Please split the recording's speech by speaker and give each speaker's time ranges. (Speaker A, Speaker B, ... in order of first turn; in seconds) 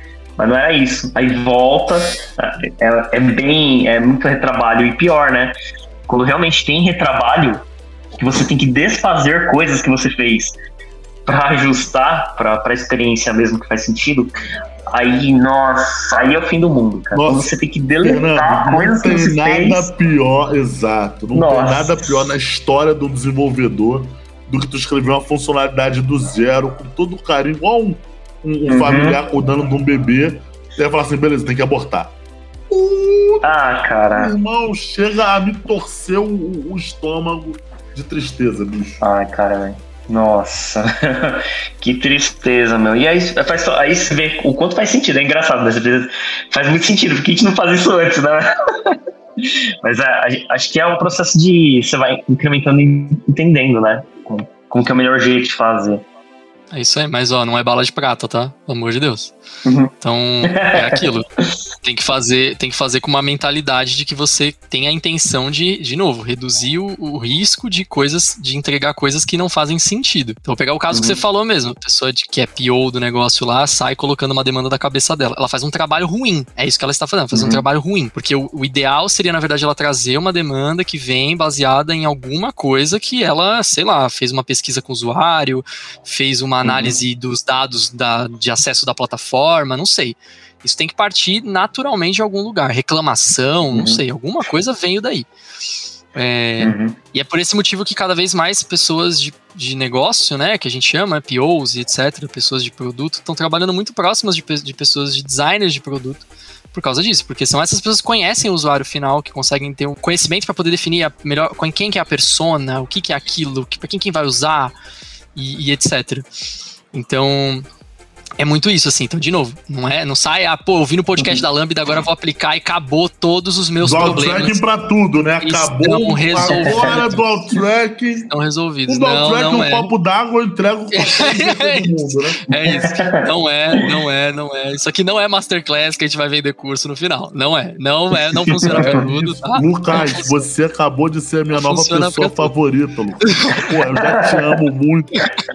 Speaker A: 0.4-5.5, 6.1-10.6, 11.3-19.8, 21.3-22.1, 28.7-29.2, 33.4-34.3, 39.0-56.0, 59.6-59.9, 60.4-61.5, 70.9-71.2, 77.3-77.6, 86.6-87.0, 93.7-94.0, 96.6-97.0, 126.5-126.9, 132.6-133.3, 138.4-139.0, 144.0-144.4
Speaker B: 17.1-32.1, 32.7-33.5, 34.1-39.0, 123.8-128.3, 128.9-132.4, 138.7-145.3
Speaker C: 56.7-59.3, 60.0-61.3, 61.8-95.3, 96.1-114.7, 115.4-116.3, 116.9-117.6, 118.4-124.6, 125.4-127.3, 128.3-129.9, 130.9-140.4, 141.5-142.5, 143.3-143.7